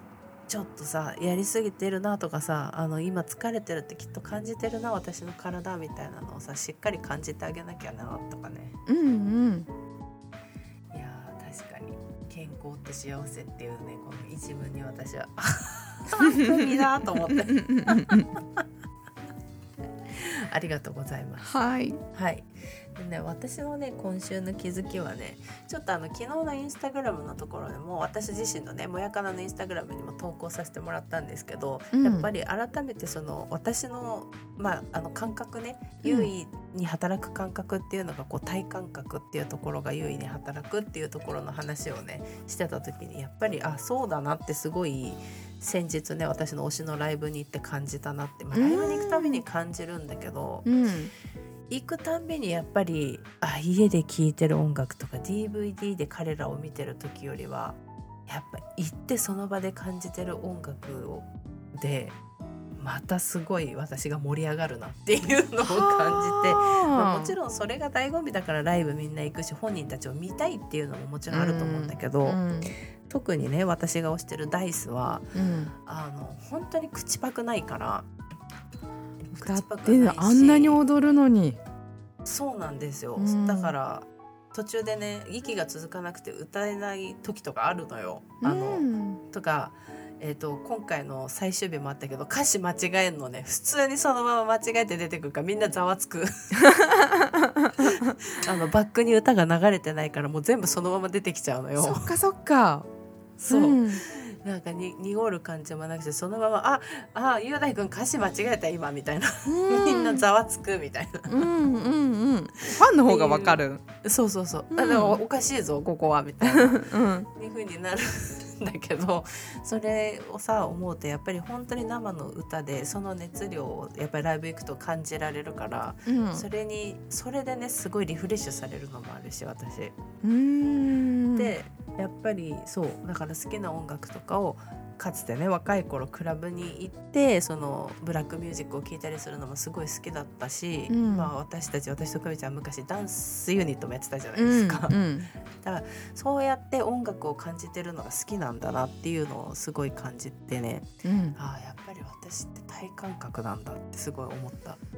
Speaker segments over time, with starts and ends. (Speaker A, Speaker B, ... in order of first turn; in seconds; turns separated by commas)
Speaker A: 0.5-8.8, Speaker B: 8.9-9.7, Speaker A: 10.9-18.6, Speaker B: 16.2-16.8, Speaker B: 17.5-18.3, Speaker A: 20.1-21.5, Speaker B: 21.4-22.0, Speaker A: 22.1-50.7, Speaker B: 31.9-32.3, Speaker B: 36.0-36.3, Speaker B: 48.5-49.4, Speaker B: 50.6-51.1, Speaker A: 51.7-62.2, Speaker A: 62.8-72.4, Speaker B: 65.7-67.3, Speaker B: 71.3-72.7, Speaker A: 73.1-78.1, Speaker B: 75.3-75.7, Speaker A: 79.3-80.8, Speaker B: 79.4-81.6, Speaker A: 82.2-96.6, Speaker B: 83.2-83.8, Speaker B: 88.4-89.2, Speaker B: 96.6-98.1, Speaker A: 97.8-102.2, Speaker B: 101.8-102.9, Speaker A: 103.4-111.5, Speaker B: 103.5-104.0, Speaker B: 109.5-110.3, Speaker B: 111.3-113.8, Speaker A: 112.6-130.0, Speaker B: 114.7-115.2, Speaker B: 116.4-117.3, Speaker B: 126.1-126.5, Speaker B: 130.2-131.5, Speaker A: 131.3-145.0, Speaker B: 140.9-141.3, Speaker B: 144.4-145.3, Speaker A: 145.6-154.8, Speaker B: 151.0-151.4